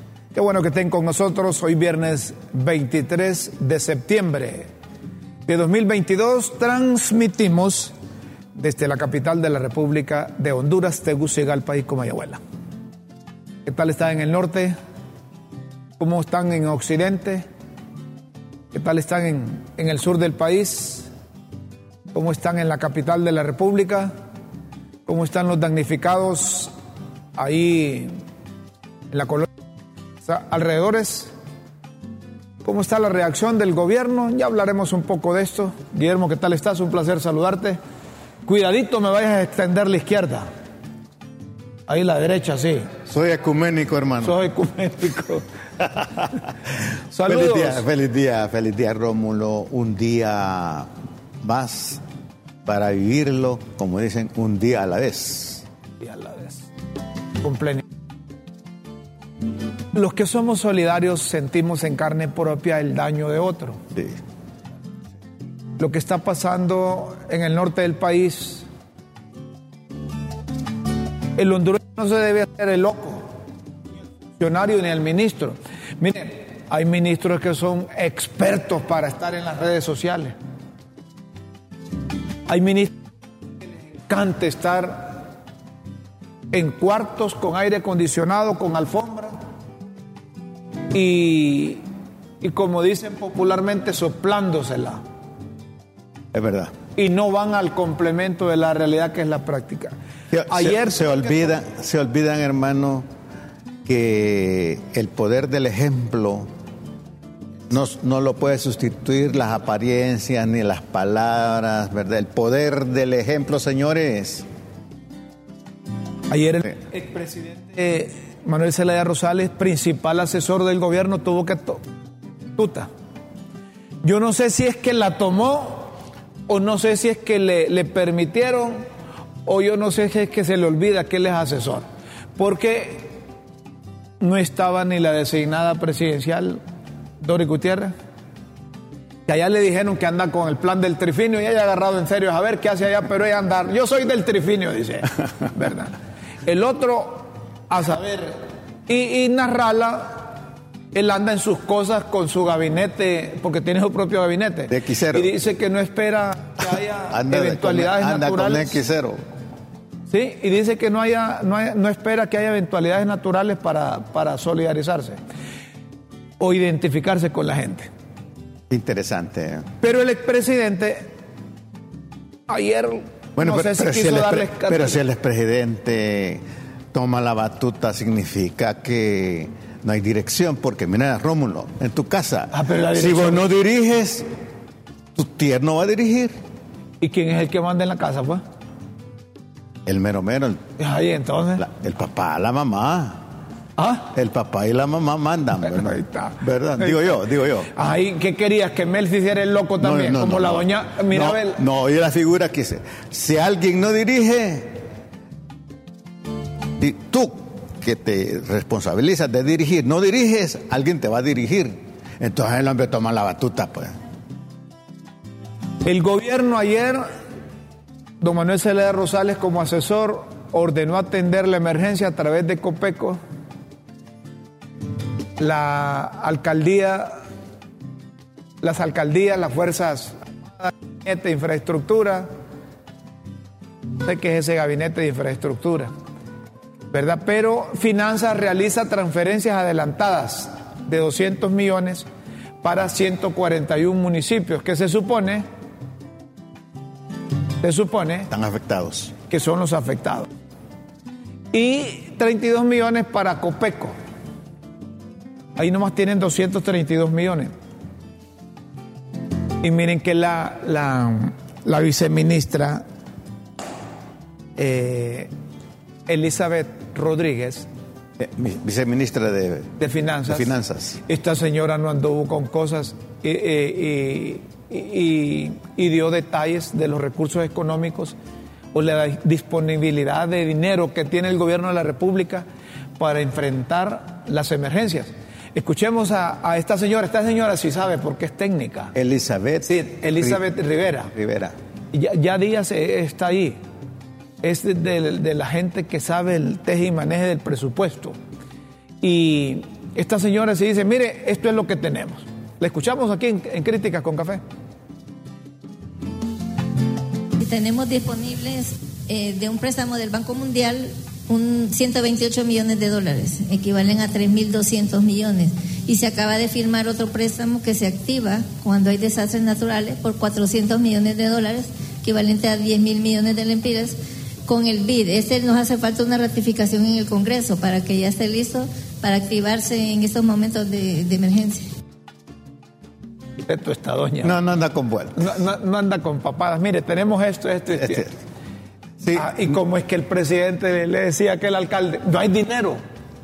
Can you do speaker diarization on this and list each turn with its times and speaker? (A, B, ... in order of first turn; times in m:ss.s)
0:00.3-0:04.7 A
0:05.4-0:07.9 A
0:08.5-0:12.4 A
0:13.6-0:14.8 A
0:16.0-0:17.4 A
0:18.7-0:21.1 A
0:22.1-0:24.1 A
0:25.0-0:26.7 A
0:27.4-0:28.2 A
0:29.1-0:29.5 A
0:30.2-0:31.3 A
0:32.6-0:37.8 A
0:38.4-0:40.5 A
0:41.9-0:42.9 A
0:43.1-0:44.4 B
0:44.2-0:45.4 A
0:45.8-0:46.4 B
0:47.1-0:47.8 A
0:47.2-0:50.9 B
0:51.4-0:52.0 B
0:52.6-0:55.6 B
0:56.0-0:56.6 A
0:57.4-0:57.8 A
0:59.9-1:03.8 A
1:03.9-1:04.2 B
1:05.8-1:08.7 A
1:11.4-1:13.3 A
1:14.4-1:20.3 A
1:22.5-1:23.0 A
1:24.0-1:25.2 A
1:26.5-1:29.4 A
1:30.9-1:31.8 A
1:32.4-1:35.0 A
1:36.3-1:36.7 B
1:37.0-1:40.0 A
1:40.3-1:43.1 B
1:40.5-1:41.5 A
1:43.8-1:46.5 B
1:47.7-1:54.4 B
1:56.3-2:01.8 A
2:02.5-2:02.9 A
2:04.0-2:05.9 A
2:06.5-2:08.8 A
2:09.4-2:11.8 A
2:12.4-2:13.1 A
2:14.2-2:16.6 A
2:17.2-2:17.9 A
2:19.3-2:30.4 A
2:30.9-2:38.8 A
2:34.7-2:35.3 B
2:37.1-2:39.2 B
2:40.1-2:45.2 A
2:46.4-2:47.9 A
2:48.7-2:49.7 B
2:49.8-2:51.1 A
2:52.5-2:55.0 A
2:53.4-3:04.3 B
3:02.5-3:03.4 A
3:05.1-3:06.3 B
3:07.0-3:08.4 A
3:09.8-3:10.6 B
3:10.8-3:11.6 A
3:11.6-3:13.2 B
3:13.8-3:14.1 A
3:14.1-3:17.8 B
3:15.7-3:17.2 A
3:17.7-3:21.6 A
3:19.8-3:24.8 B
3:26.8-3:34.0 B
3:35.8-3:37.0 A
3:38.2-3:43.2 A
3:45.4-3:47.2 A
3:48.6-3:52.3 A
3:54.0-3:55.9 A
3:56.9-4:02.0 A
4:02.6-4:05.4 A
4:07.6-4:08.3 A
4:08.3-4:09.1 B
4:09.3-4:10.3 A
4:11.5-4:13.9 A
4:15.6-4:17.5 A
4:19.6-4:22.8 A
4:24.6-4:25.3 A
4:26.1-4:27.7 A
4:28.2-4:29.7 B
4:29.8-4:38.2 A
4:30.3-4:31.0 B
4:38.7-4:42.4 A
4:43.0-4:48.9 A
4:48.9-4:50.4 B
4:49.6-4:51.1 A
4:51.1-4:51.5 B
4:51.9-4:53.6 A
4:54.4-4:58.2 A
4:59.0-5:04.4 A
5:07.4-5:31.7 C
5:33.4-5:34.4 A
5:34.2-5:35.3 B
5:35.2-5:38.1 A
5:37.8-5:38.1 B
5:39.0-5:39.4 B
5:39.1-5:42.8 A